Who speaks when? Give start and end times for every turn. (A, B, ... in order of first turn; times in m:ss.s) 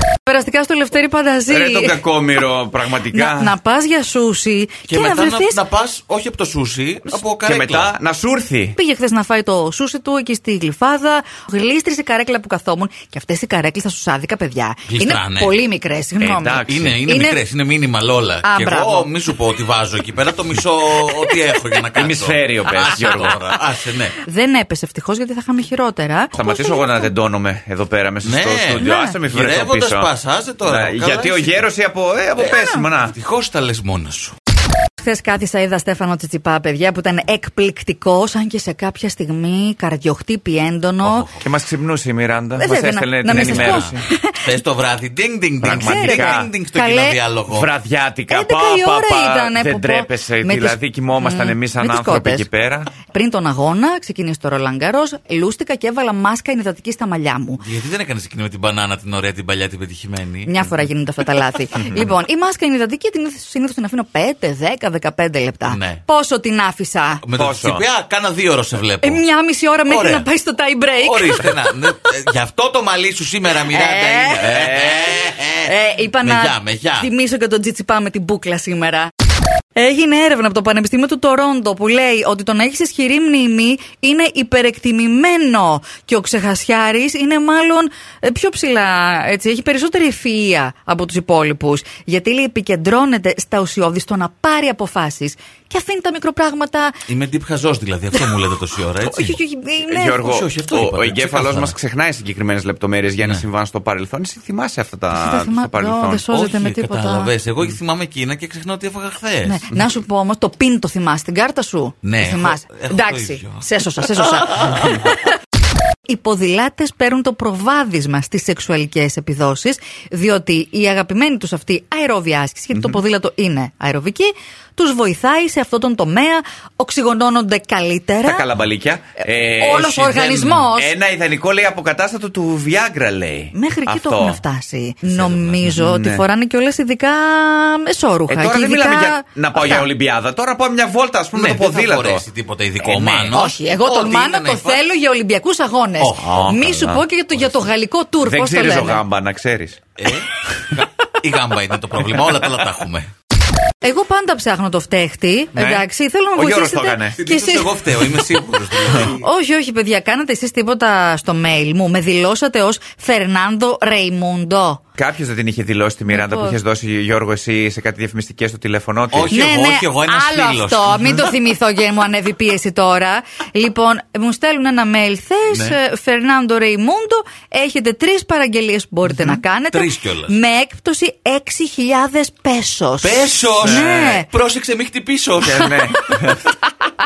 0:00.2-0:02.0 A
0:01.5-0:03.6 B
0:03.1-0:05.6 A
0:04.9-0:07.9 C
0:07.4-0:08.8 B
0:08.8-0:17.4 A
0:14.9-0:15.6 C
0:16.2-0:17.0 B
0:16.6-0:24.2 C
0:18.4-0:19.1 A
0:21.9-0:23.4 B
0:24.2-0:27.1 A
0:26.3-0:30.1 B
0:28.2-0:31.6 C
0:28.8-0:29.2 A
0:30.6-0:33.2 B
0:32.4-0:32.8 A
0:33.0-0:34.3 C
0:35.0-0:41.3 A
0:41.0-0:41.4 C
0:41.4-0:44.0 B
0:42.6-0:44.4 A
0:43.3-0:47.7 C
0:45.6-0:46.5 B
0:45.7-0:47.2 A
0:47.5-0:52.9 B
0:48.3-0:52.5 A
0:53.0-0:57.6 A
0:57.6-1:00.8 C
1:00.4-1:07.2 A
1:05.6-1:06.0 C
1:07.2-1:09.2 C
1:07.3-1:07.8 B
1:09.0-1:11.5 A
1:09.8-1:10.3 C
1:10.9-1:17.1 C
1:13.7-1:14.6 A
1:14.4-1:15.2 B
1:15.5-1:19.1 A
1:19.7-1:37.0 A
1:37.1-1:39.4 C
1:38.9-1:40.3 A
1:39.8-1:46.3 B
1:40.2-1:41.8 C
1:45.1-1:47.3 A
1:46.3-1:49.6 C
1:49.4-1:55.4 A
1:52.0-1:55.1 C
1:56.0-2:08.4 A
2:08.2-2:10.0 B
2:09.6-2:10.9 A
2:09.7-2:10.7 C
2:10.7-2:14.4 B
2:13.5-2:19.9 A
2:15.0-2:16.2 B
2:18.3-2:22.2 B
2:21.3-2:24.8 C
2:22.8-2:23.4 B
2:23.3-2:29.0 A
2:26.0-2:26.4 C
2:26.2-2:27.0 B
2:28.2-2:29.8 B
2:30.0-2:33.1 C
2:33.8-2:38.2 A
2:35.5-2:37.2 B
2:37.2-2:39.2 C
2:38.9-2:44.8 A
2:45.0-2:49.4 B
2:46.1-2:46.6 A
2:49.1-2:51.3 C
2:49.3-3:04.3 A
2:55.5-2:55.8 C
2:59.1-3:00.3 C
3:03.0-3:05.8 C
3:03.6-3:03.9 B
3:05.4-3:06.5 B
3:05.6-3:06.2 A